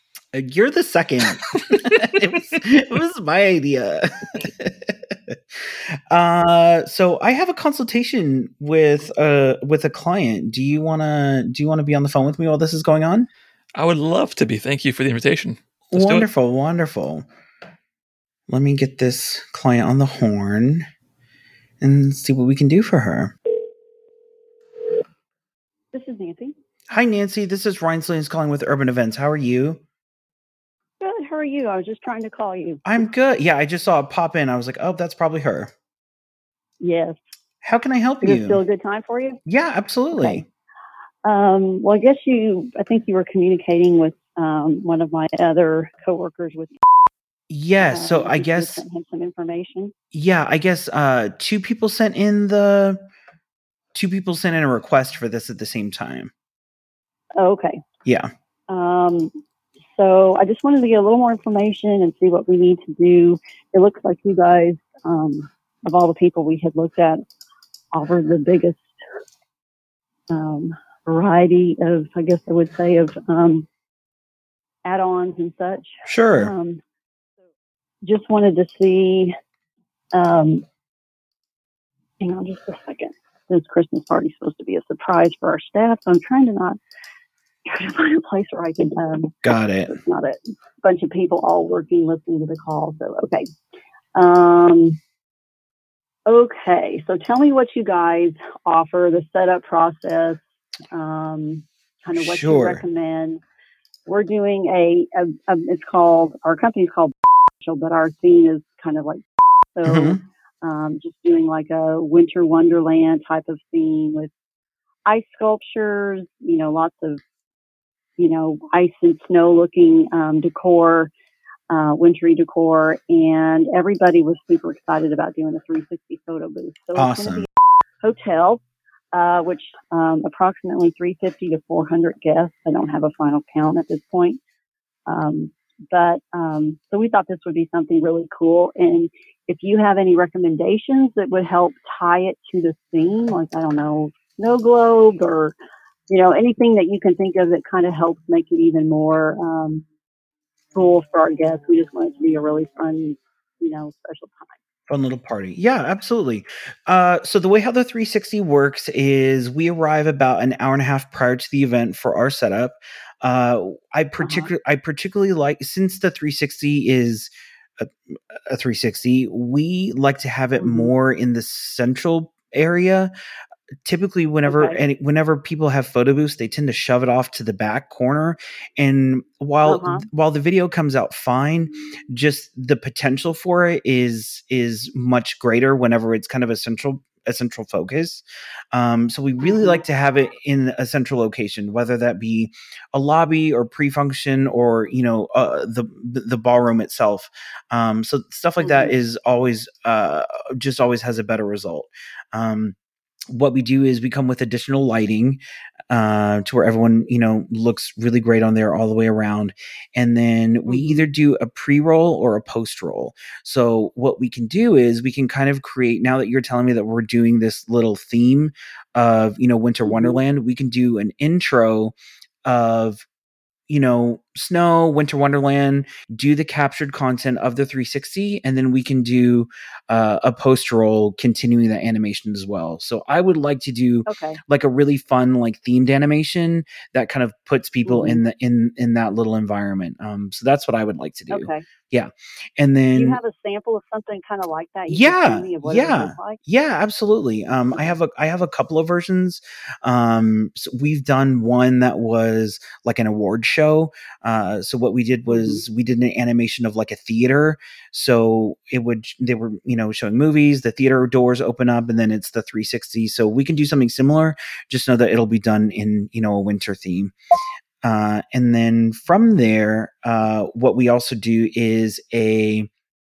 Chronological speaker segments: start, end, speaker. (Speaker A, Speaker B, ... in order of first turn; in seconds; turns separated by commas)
Speaker A: 0.3-13.3, Speaker B: 13.8-16.3, Speaker A: 15.9-17.3, Speaker A: 18.5-20.8, Speaker A: 21.8-23.3, Speaker C: 25.9-26.5, Speaker A: 26.9-29.8, Speaker C: 31.0-33.0, Speaker A: 32.8-35.7, Speaker C: 36.8-37.2, Speaker A: 37.6-38.6, Speaker C: 38.2-39.4, Speaker A: 39.5-40.5, Speaker C: 40.1-40.4, Speaker C: 41.2-46.8, Speaker A: 47.5-48.8, Speaker C: 47.8-49.9, Speaker A: 50.1-53.0, Speaker A: 53.9-56.3, Speaker C: 57.4-57.8, Speaker C: 58.7-59.3, Speaker C: 59.9-67.2, Speaker C: 67.9-68.9, Speaker C: 70.3-73.7, Speaker C: 74.8-76.8, Speaker A: 76.0-76.5, Speaker C: 78.0-79.3, Speaker C: 80.1-80.6, Speaker C: 82.2-86.8, Speaker C: 87.7-93.5, Speaker A: 89.4-89.9, Speaker C: 94.2-95.0, Speaker C: 96.3-103.4, Speaker A: 102.1-102.8, Speaker C: 104.0-109.2, Speaker C: 109.7-114.3, Speaker A: 109.8-110.2, Speaker C: 115.0-117.2, Speaker C: 118.2-121.1, Speaker C: 121.7-127.5, Speaker A: 127.0-127.5, Speaker C: 128.0-134.4, Speaker C: 135.1-145.5, Speaker C: 146.1-149.8, Speaker C: 150.7-154.5, Speaker A: 154.9-173.1, Speaker C: 164.2-164.5, Speaker C: 170.6-170.9, Speaker A: 173.8-202.8, Speaker C: 174.5-174.8, Speaker C: 179.6-180.1, Speaker C: 189.4-189.8, Speaker C: 198.6-198.9, Speaker A: 203.3-223.1, Speaker C: 210.7-211.1, Speaker C: 219.8-220.2, Speaker A: 223.7-243.2, Speaker C: 234.1-234.4, Speaker C: 237.8-238.2, Speaker C: 241.3-241.7, Speaker C: 242.9-246.4, Speaker A: 244.9-267.1, Speaker C: 255.3-255.6, Speaker A: 267.8-272.7